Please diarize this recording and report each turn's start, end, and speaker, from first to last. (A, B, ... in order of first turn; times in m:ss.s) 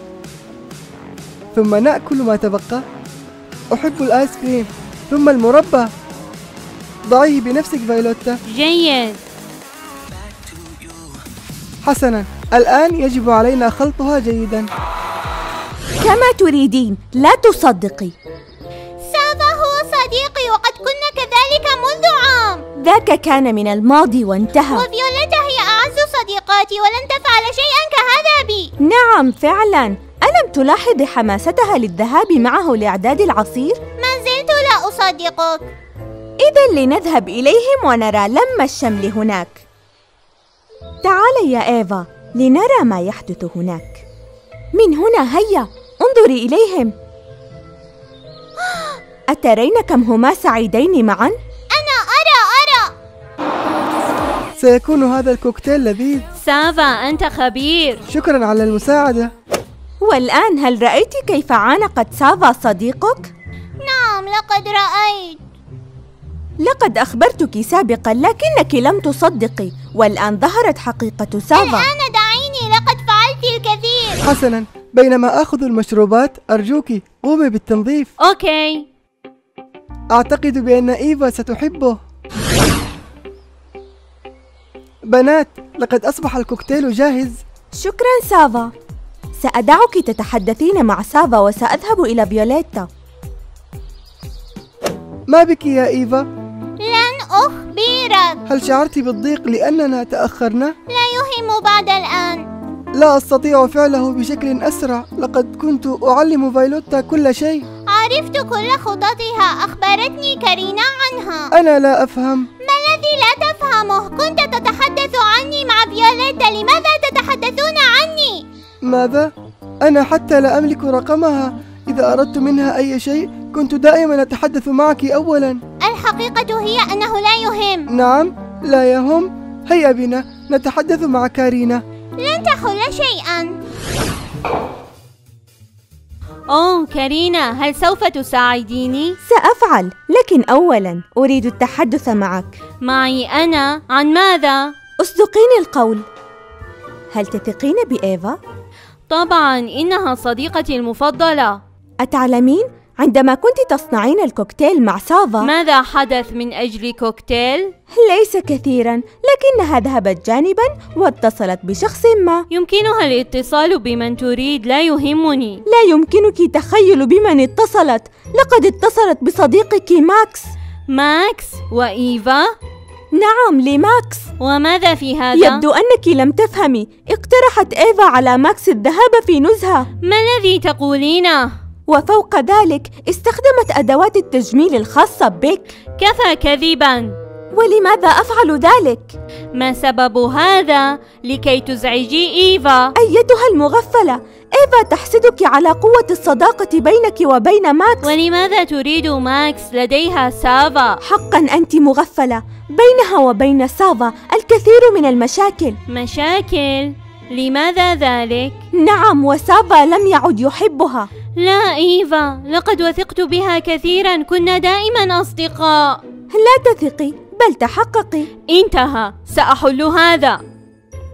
0:01.5-0:02.8 A
0:03.7-0:05.9 A
0:07.0-0:08.4 A
0:08.5-0:09.2 B
0:11.8-0:14.7 A
0:16.0-0:18.1 C
0:19.0-0:22.6 D
0:22.8-0:24.8 C
0:24.7-0:28.7 D
0:28.8-0:33.8 C
0:34.0-0:35.6 D
0:36.4-0:39.6 C
0:41.0-0:44.0 C
0:44.7-0:46.9 C
0:48.6-0:49.0 D
0:49.3-0:51.3 C
0:51.7-0:52.9 D
0:54.6-0:56.2 A
0:56.4-0:58.0 B
0:58.1-0:59.3 A
1:00.0-1:03.3 C
1:03.8-1:05.4 D
1:06.6-1:11.9 C
1:11.5-1:14.2 D
1:14.2-1:18.1 A
1:18.2-1:18.8 B
1:20.1-1:22.0 A
1:25.1-1:27.4 A
1:27.8-1:28.7 C
1:29.4-1:32.9 C
1:35.3-1:36.2 A
1:36.8-1:38.4 D
1:38.5-1:40.7 A
1:40.9-1:42.4 D
1:42.9-1:47.6 A
1:47.9-1:51.5 D
1:51.5-1:52.5 A
1:52.6-1:58.4 D
1:58.8-1:59.3 A
1:59.8-2:05.6 A
2:05.8-2:07.9 D
2:07.9-2:11.8 A
2:12.2-2:13.5 D
2:16.5-2:19.2 B
2:19.3-2:22.5 C
2:22.8-2:24.7 B
2:25.0-2:26.0 C
2:27.1-2:28.4 C
2:29.1-2:31.6 B
2:32.0-2:35.5 C
2:35.4-2:37.7 B
2:37.9-2:42.4 C
2:42.5-2:45.6 B
2:45.6-2:50.5 C
2:50.9-2:52.5 B
2:53.1-2:54.3 C
2:54.4-2:55.6 B
2:55.3-2:59.9 C
3:00.0-3:01.5 B
3:01.9-3:05.7 C
3:06.0-3:07.1 B
3:07.5-3:09.1 C
3:09.5-3:12.9 B
3:13.0-3:18.1 C
3:18.0-3:21.0 B
3:21.0-3:25.8 C
3:25.9-3:28.6 B
3:28.7-3:31.1 C
3:31.4-3:36.0 B
3:36.3-3:38.3 C
3:38.5-3:40.4 B